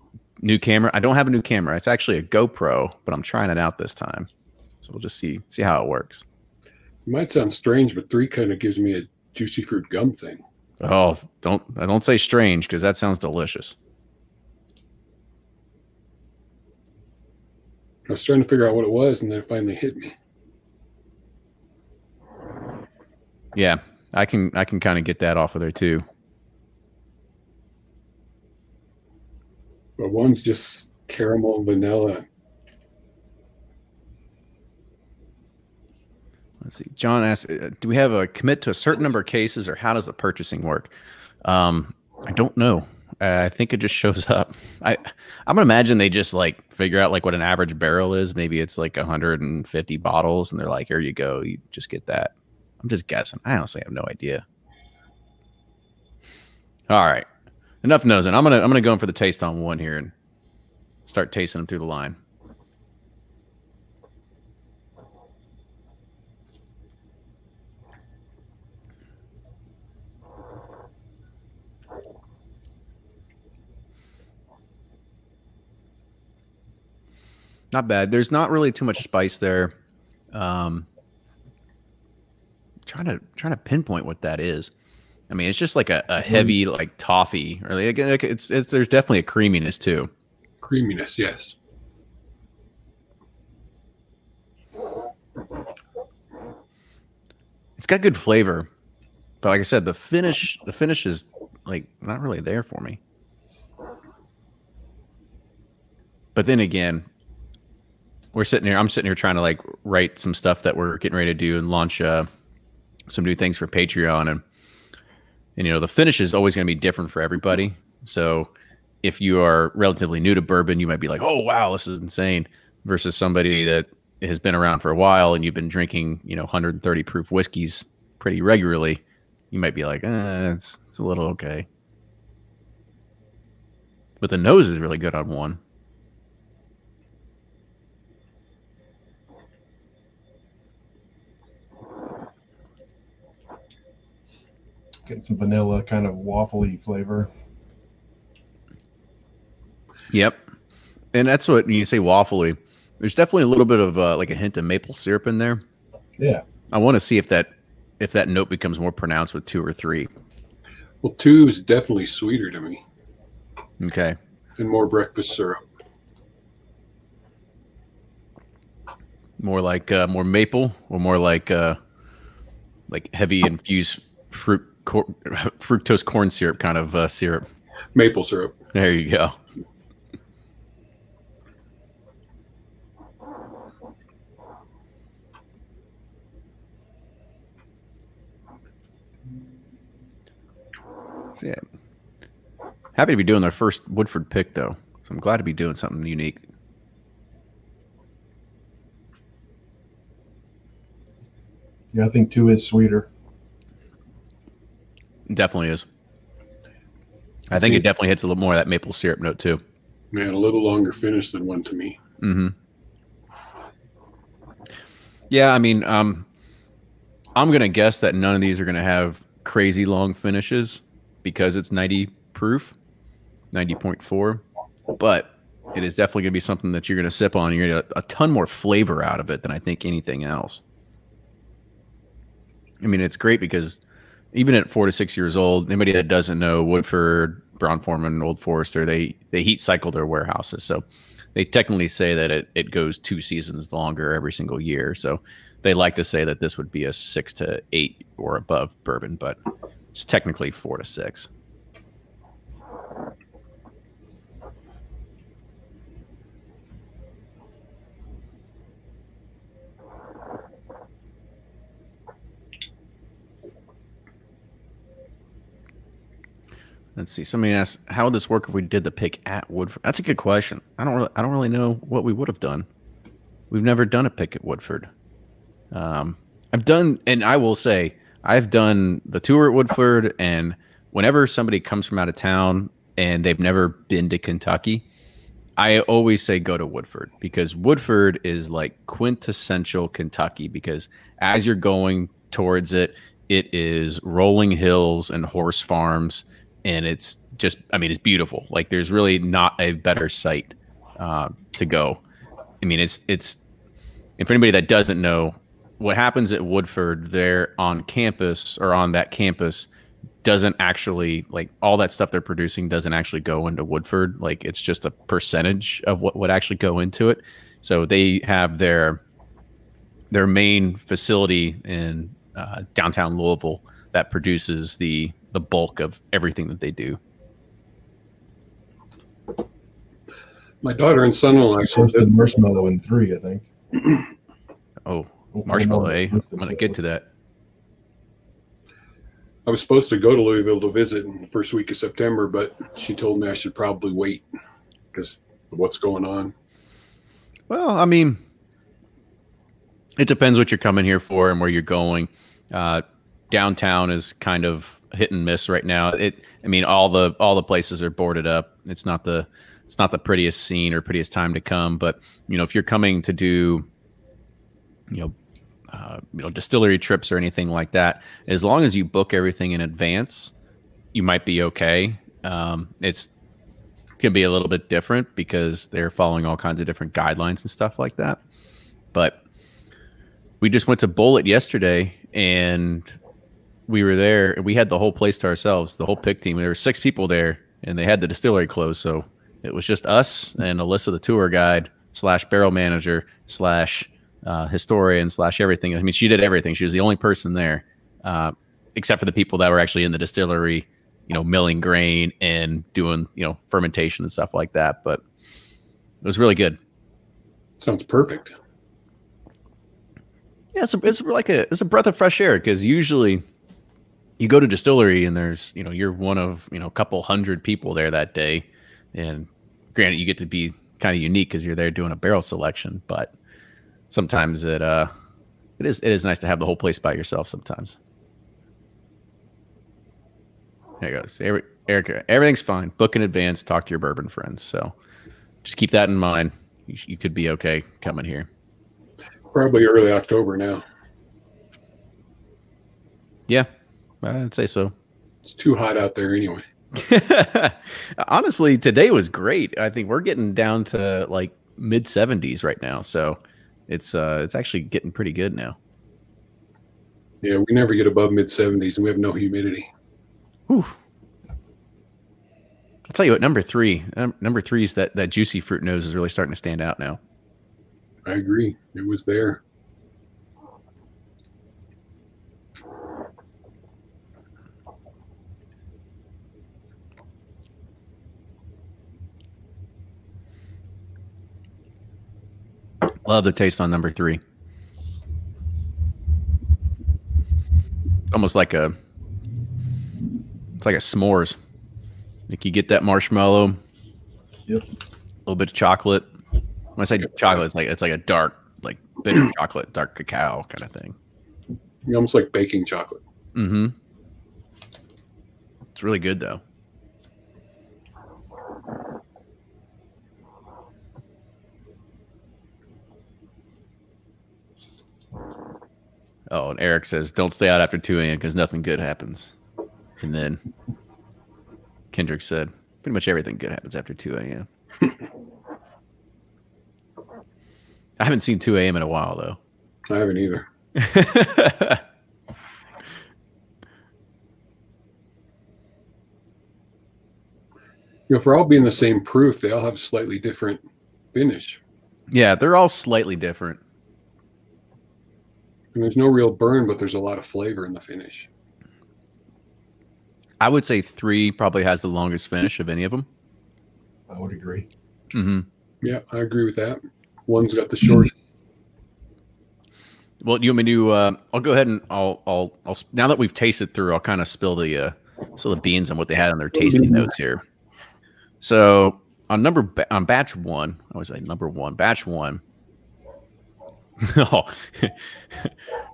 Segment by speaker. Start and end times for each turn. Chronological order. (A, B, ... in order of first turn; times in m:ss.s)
0:00.4-0:04.3 A
0:04.8-0:06.2 A
0:07.1-0:10.4 B
0:10.8-0:13.8 A
0:18.1-0:20.1 B
0:23.6-0:26.0 A
0:30.0-0:32.2 B
0:36.6-0:40.9 A
0:41.4-0:54.4 A
0:56.9-0:57.3 A
0:57.8-1:00.1 A
1:01.1-1:02.2 A
1:17.7-1:19.7 A
1:20.3-1:20.9 A
1:22.9-1:24.7 A
1:25.3-1:30.1 A
1:30.6-1:31.6 B
1:37.8-1:38.7 A
1:39.4-1:43.0 A
1:46.4-1:47.1 A
1:48.3-1:52.3 A
1:53.1-1:54.4 A
1:55.6-1:58.5 A
1:59.0-2:11.7 A
2:14.2-2:15.6 A
2:25.1-2:27.3 C
2:30.1-2:30.4 A
2:31.1-2:35.6 A
2:36.2-2:36.4 C
2:36.7-2:40.1 A
2:41.0-2:42.8 B
2:43.8-2:44.2 A
2:44.6-2:45.6 B
2:49.4-2:51.8 A
2:52.9-2:57.5 A
2:58.0-2:58.6 B
2:58.7-2:59.4 A
3:11.4-3:11.6 A
3:13.0-3:16.4 A
3:21.9-3:23.1 C
3:25.3-3:25.9 A
3:27.5-3:29.6 A
3:27.6-3:27.8 B
3:30.1-3:32.0 B
3:32.2-3:32.6 A
3:35.3-3:36.3 A
3:37.4-3:42.8 A
3:43.5-3:44.4 A
3:45.0-3:50.6 A
3:52.8-3:53.8 A
3:54.3-4:00.8 A
4:01.4-4:09.4 A
4:09.9-4:11.3 A
4:27.0-4:32.7 A
4:33.5-4:34.9 A
4:35.7-4:44.8 A
4:45.6-5:02.0 A
5:02.6-5:03.4 A
5:04.2-5:09.7 A
5:10.2-5:19.0 A
5:20.1-5:27.0 A
5:30.6-5:32.1 B
5:31.7-5:33.5 C
5:34.9-5:37.0 A
5:35.3-5:36.8 C
5:39.5-5:44.2 B
5:44.9-5:46.3 B
5:47.5-5:48.2 A
5:50.0-6:03.6 A
6:05.7-6:10.3 A
6:10.9-6:13.1 A
6:14.0-6:18.2 A
6:18.9-6:19.2 A
6:20.4-6:22.8 A
6:23.7-6:45.0 A
6:46.0-6:46.6 A
6:47.6-6:48.3 B
6:50.6-6:53.2 A
6:54.2-7:03.1 A
7:03.9-7:04.9 A
7:05.6-7:07.8 A
7:10.8-7:14.7 A
7:15.4-7:18.3 A
7:19.3-7:20.6 B
7:24.0-7:24.7 A
7:25.2-7:26.4 B
7:26.7-7:35.6 A
7:37.2-7:39.7 B
7:40.5-7:40.8 A
7:42.9-7:47.0 A
7:48.1-7:49.4 B
8:03.0-8:04.2 A
8:08.1-8:08.8 A
8:10.6-8:11.4 A
8:12.3-8:13.6 A
8:15.3-8:16.1 A
8:16.8-8:21.0 A
8:21.9-8:23.0 B
8:23.4-8:23.8 A
8:25.8-8:26.4 A
8:36.3-8:39.3 A
8:40.0-8:40.4 A
8:41.9-8:44.5 A
8:48.0-8:49.4 A
8:49.9-8:50.5 B
8:50.8-8:51.8 A
8:58.1-9:00.6 B
9:01.1-9:01.6 B
9:02.1-9:03.6 A
9:05.8-9:08.3 B
9:10.4-9:13.1 A
9:14.1-9:14.7 C
9:15.1-9:15.5 A
9:15.8-9:18.1 B
9:20.2-9:27.4 A
9:26.6-9:27.1 B
9:28.4-9:32.4 A
9:34.0-9:35.5 A